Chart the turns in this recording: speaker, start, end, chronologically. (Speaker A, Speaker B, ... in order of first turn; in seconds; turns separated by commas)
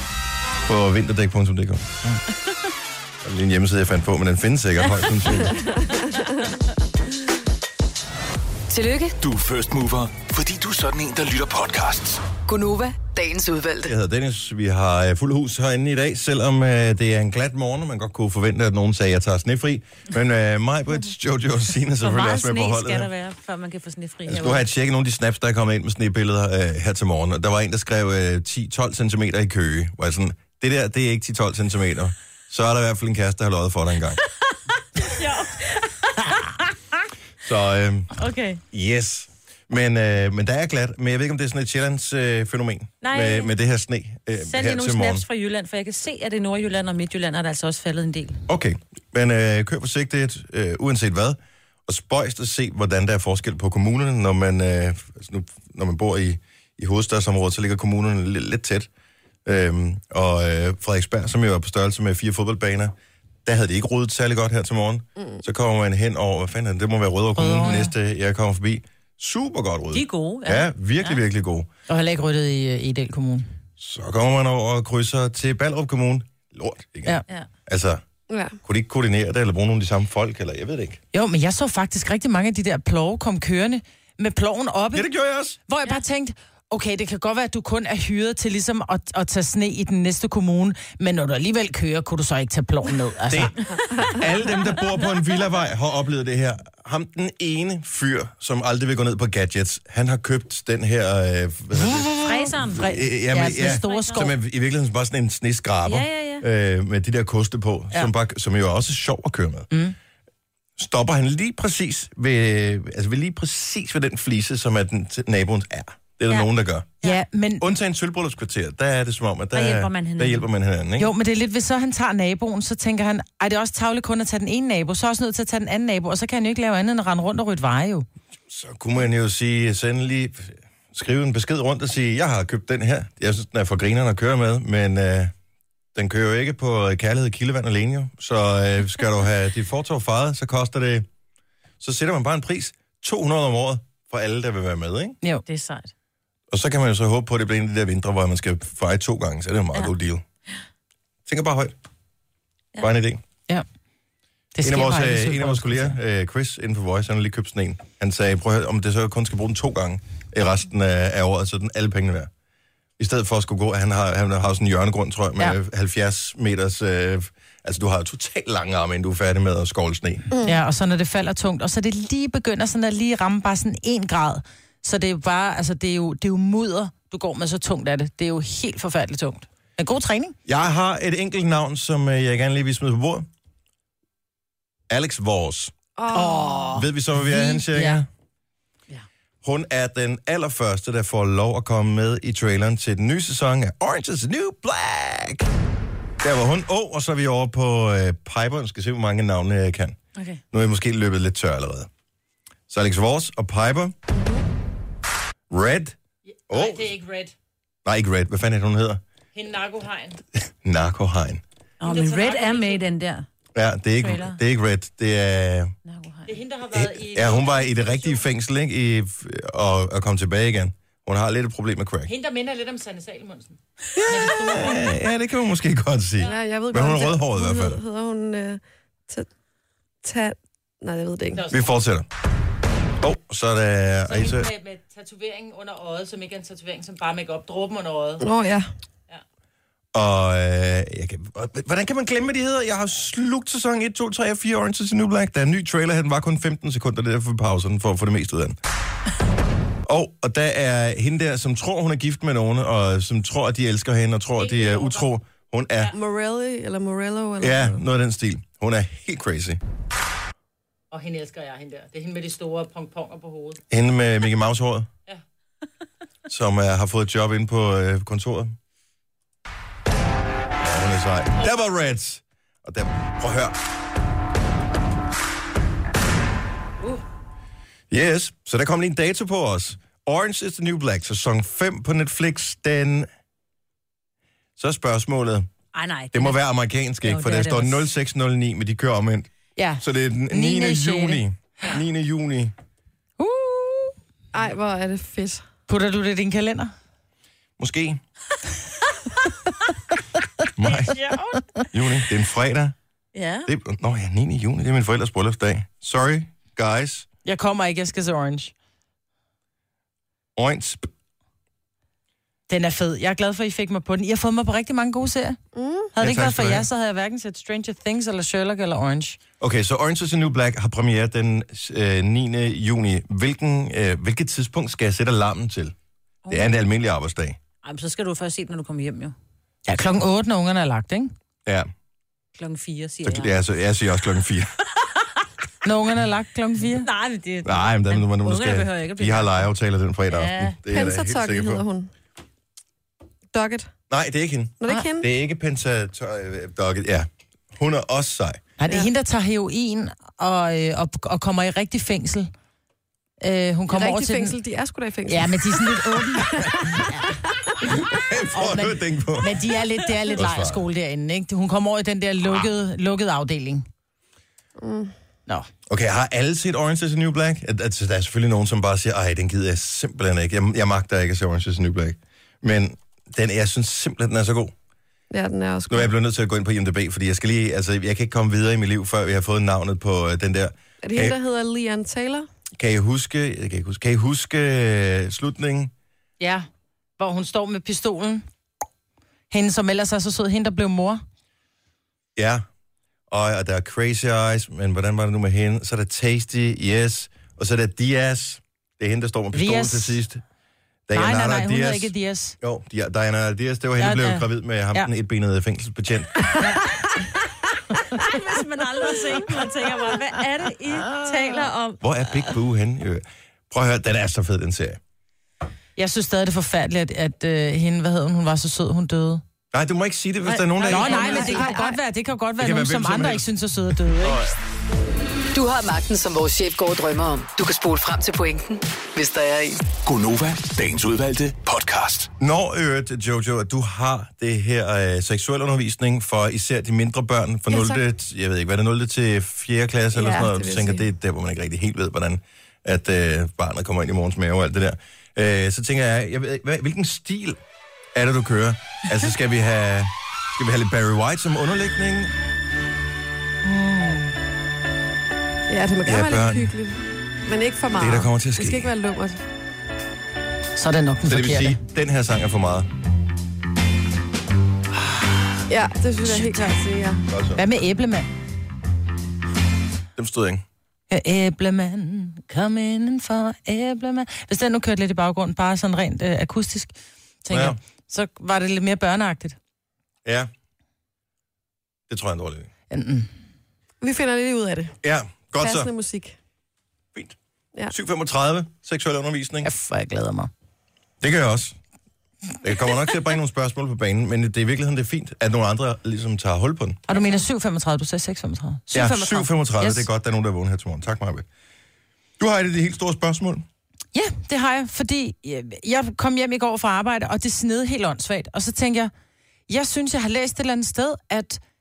Speaker A: 0.7-2.0, Speaker A: 3.2-5.7, Speaker B: 8.7-9.2, Speaker C: 9.2-12.2, Speaker B: 12.5-13.9, Speaker A: 13.8-23.1, Speaker D: 22.0-24.6, Speaker A: 24.2-34.2, Speaker D: 35.0-37.1, Speaker A: 37.4-38.1, Speaker D: 38.1-38.6, Speaker A: 38.7-45.2, Speaker D: 43.0-43.5, Speaker D: 44.4-48.4, Speaker A: 48.5-58.9, Speaker A: 59.4-62.9, Speaker A: 63.4-71.7, Speaker E: 67.4-67.9, Speaker D: 69.9-71.2, Speaker E: 71.9-73.5, Speaker A: 73.8-78.0, Speaker F: 78.3-78.6, Speaker A: 78.6-81.0, Speaker E: 81.1-85.1, Speaker A: 84.9-85.6, Speaker E: 85.7-93.5, Speaker A: 93.3-109.7, Speaker E: 101.8-104.3, Speaker D: 102.2-104.2, Speaker D: 105.8-106.4, Speaker E: 109.7-110.0, Speaker A: 110.8-116.9, Speaker E: 117.0-117.6, Speaker A: 117.6-121.1, Speaker D: 119.5-120.5, Speaker E: 121.0-128.1, Speaker A: 128.5-135.3, Speaker A: 135.9-141.1, Speaker A: 141.8-145.2, Speaker D: 145.4-145.9, Speaker A: 146.5-150.2, Speaker A: 151.3-151.7, Speaker A: 152.8-153.2, Speaker E: 154.5-156.0, Speaker A: 154.6-162.3, Speaker A: 163.0-170.2, Speaker E: 170.4-180.3, Speaker A: 180.4-183.3, Speaker A: 184.9-185.7, Speaker F: 186.0-186.8, Speaker E: 186.1-188.0, Speaker A: 186.7-188.1, Speaker A: 189.4-195.5, Speaker A: 196.2-200.0, Speaker A: 200.5-201.9, Speaker A: 202.7-203.9, Speaker A: 205.5-206.0, Speaker E: 206.5-207.3, Speaker A: 206.5-206.9, Speaker A: 207.8-209.0, Speaker E: 209.3-210.2, Speaker A: 210.4-211.4, Speaker D: 211.8-213.2, Speaker E: 211.8-212.8, Speaker A: 213.5-215.7, Speaker D: 214.0-214.4, Speaker D: 215.8-216.3, Speaker E: 216.3-218.2, Speaker A: 216.7-222.1, Speaker E: 222.1-224.9, Speaker A: 223.9-227.8, Speaker F: 226.2-229.3, Speaker F: 230.0-231.4, Speaker E: 231.3-231.6, Speaker A: 231.5-232.1, Speaker A: 233.0-234.5, Speaker E: 234.1-238.2, Speaker F: 238.2-238.7, Speaker A: 239.9-248.6, Speaker A: 249.8-255.9, Speaker E: 254.4-255.0, Speaker F: 255.9-257.8, Speaker A: 257.4-259.6, Speaker E: 260.9-263.6, Speaker A: 263.7-264.9, Speaker A: 266.3-268.6, Speaker A: 270.6-273.6, Speaker A: 277.9-283.1, Speaker A: 284.6-285.5, Speaker D: 285.7-286.4, Speaker A: 286.1-292.5, Speaker D: 287.0-287.9, Speaker E: 289.6-291.2, Speaker E: 293.2-293.9, Speaker F: 294.3-295.4, Speaker E: 295.7-296.7, Speaker A: 297.6-298.0, Speaker A: 300.6-301.0, Speaker A: 301.7-302.8, Speaker D: 303.1-303.5, Speaker A: 303.4-307.1, Speaker E: 307.2-308.5, Speaker A: 310.4-310.9, Speaker E: 312.5-315.4, Speaker F: 315.5-315.9, Speaker E: 315.9-319.2, Speaker A: 316.0-316.7, Speaker A: 319.4-325.7, Speaker D: 326.2-326.5, Speaker A: 326.3-327.4, Speaker D: 327.6-329.1, Speaker E: 329.7-331.1, Speaker D: 332.4-333.4, Speaker A: 333.0-334.5, Speaker E: 335.6-336.9, Speaker D: 336.7-339.5, Speaker A: 337.4-341.6, Speaker D: 340.1-340.6, Speaker F: 340.7-341.9, Speaker F: 343.3-343.7, Speaker A: 343.9-348.4, Speaker F: 344.6-345.1, Speaker E: 348.6-352.3, Speaker E: 353.2-354.4, Speaker F: 353.7-357.1, Speaker E: 355.1-357.1, Speaker A: 357.9-359.4, Speaker E: 358.3-363.6, Speaker A: 360.1-360.6, Speaker F: 364.6-364.9, Speaker A: 365.7-374.5, Speaker F: 375.1-375.9, Speaker A: 375.7-381.2, Speaker F: 380.8-382.3, Speaker A: 382.5-385.7, Speaker E: 386.2-386.5, Speaker E: 387.0-388.2, Speaker E: 389.3-391.0, Speaker A: 392.1-392.4, Speaker A: 393.1-400.2, Speaker E: 399.3-400.0, Speaker A: 400.9-406.3, Speaker E: 400.9-402.4, Speaker E: 403.8-404.9, Speaker E: 406.4-406.8, Speaker D: 407.9-411.8, Speaker A: 411.8-414.8, Speaker E: 415.8-419.2, Speaker A: 419.5-421.6, Speaker D: 420.2-421.8, Speaker E: 420.6-424.2, Speaker A: 422.4-423.3, Speaker A: 423.8-424.3, Speaker B: 425.3-429.6, Speaker C: 429.8-432.1, Speaker A: 432.2-447.4, Speaker F: 437.5-437.8, Speaker F: 439.9-440.8, Speaker A: 447.9-452.1, Speaker F: 455.5-459.2, Speaker A: 455.8-456.5, Speaker A: 457.8-458.7, Speaker E: 460.6-461.6, Speaker A: 461.1-462.7, Speaker F: 465.5-467.0, Speaker E: 466.0-466.5, Speaker A: 467.1-467.4, Speaker E: 467.4-468.1, Speaker A: 469.9-470.4, Speaker E: 470.9-476.7, Speaker E: 477.2-479.4, Speaker A: 477.3-477.6, Speaker A: 480.0-480.3, Speaker A: 481.9-482.5, Speaker E: 482.7-483.1, Speaker F: 483.8-484.8, Speaker A: 484.8-485.7, Speaker F: 485.4-486.1, Speaker A: 487.7-489.5, Speaker E: 489.4-490.3, Speaker A: 491.0-491.6, Speaker A: 492.4-496.8, Speaker E: 496.9-499.9, Speaker A: 498.7-501.3, Speaker A: 502.2-503.4, Speaker E: 503.9-508.9, Speaker E: 509.5-511.4